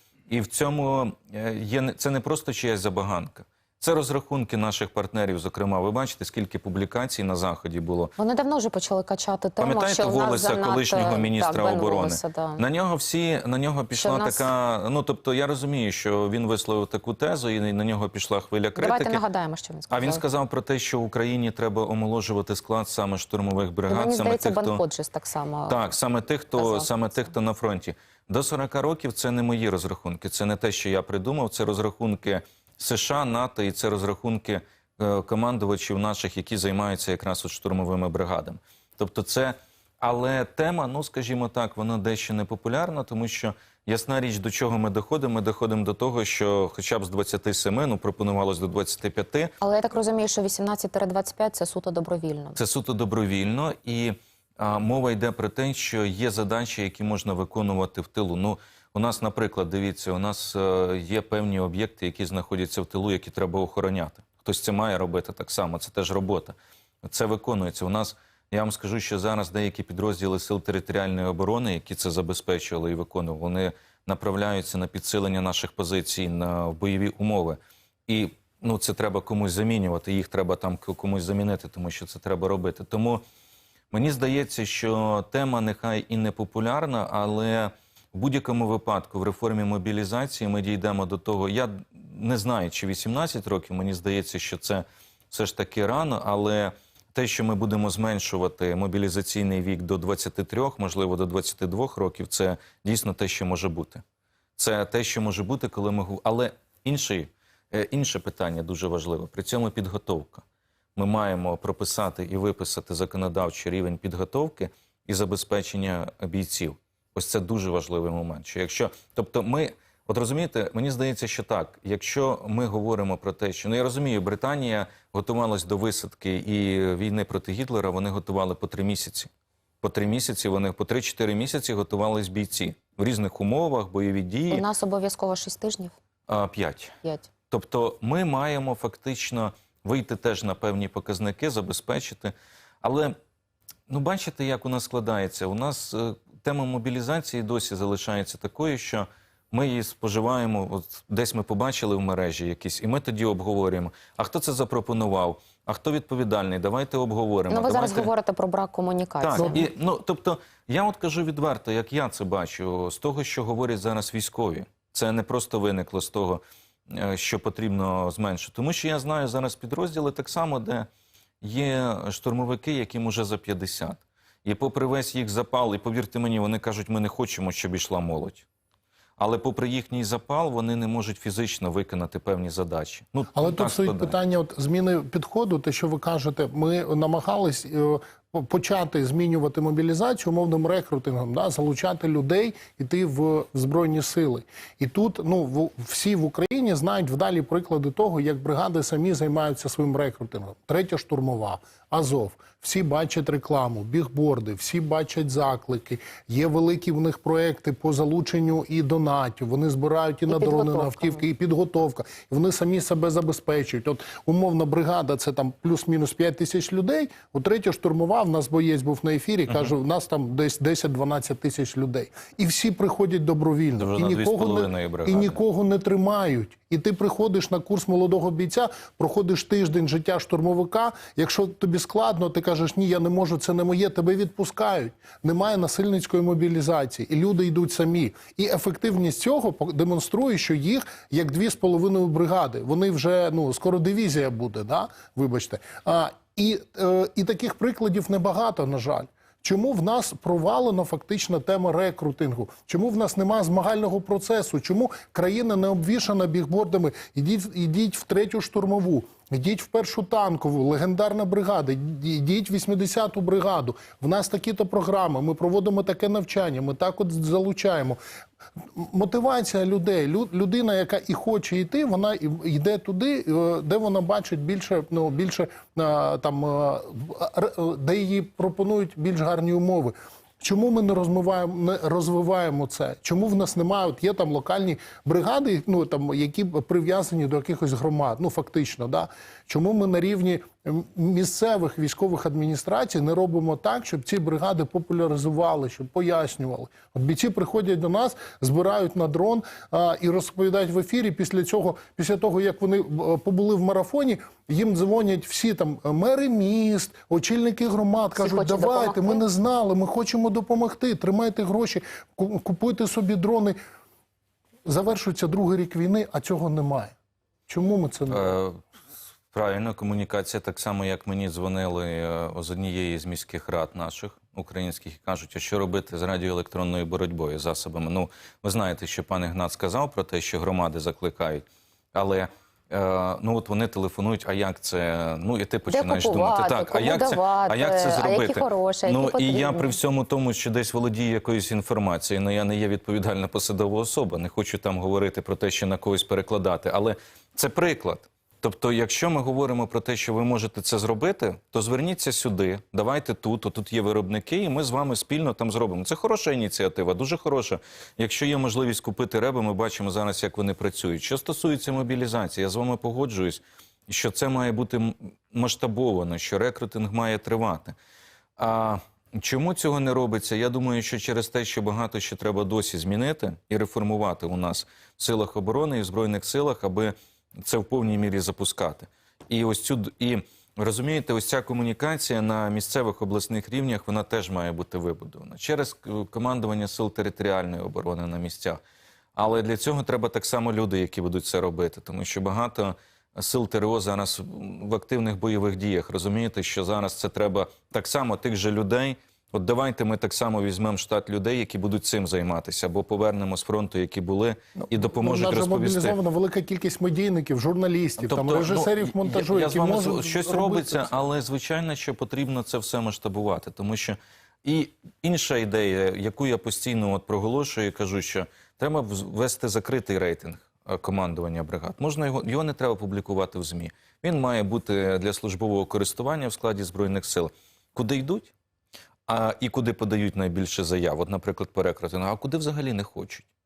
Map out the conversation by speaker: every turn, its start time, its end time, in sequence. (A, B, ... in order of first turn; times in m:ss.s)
0:00.3-0:08.1 A
0:08.2-0:12.6 B
0:09.6-0:19.2 A
0:14.0-0:14.5 B
0:18.8-0:20.2 B
0:19.9-0:24.8 A
0:23.9-0:25.9 B
0:25.7-0:49.5 A
0:26.6-0:26.9 B
0:49.6-0:52.6 B
0:52.6-1:23.2 A
1:23.9-1:44.0 A
1:44.6-1:50.4 A
1:51.0-2:09.3 A
2:09.8-2:14.6 A
2:14.5-2:16.0 B
2:16.3-2:17.0 A
2:17.0-2:17.3 B
2:17.5-2:23.2 A
2:23.9-2:38.1 A
2:37.5-2:39.6 B
2:39.2-2:50.9 A
2:51.4-2:58.5 A
2:59.2-3:04.2 A
3:03.4-4:28.0 C
3:30.3-3:31.2 B
3:43.8-3:45.4 A
4:28.8-5:13.6 C
5:08.2-5:09.2 B
5:14.6-5:17.0 C
5:17.5-5:18.3 C
5:18.1-5:18.6 A
5:19.3-6:07.8 A
5:35.7-5:39.8 B
6:08.4-6:28.6 A
6:29.2-6:46.0 A
6:44.8-6:51.0 C
6:48.0-7:08.3 A
7:09.1-7:13.3 A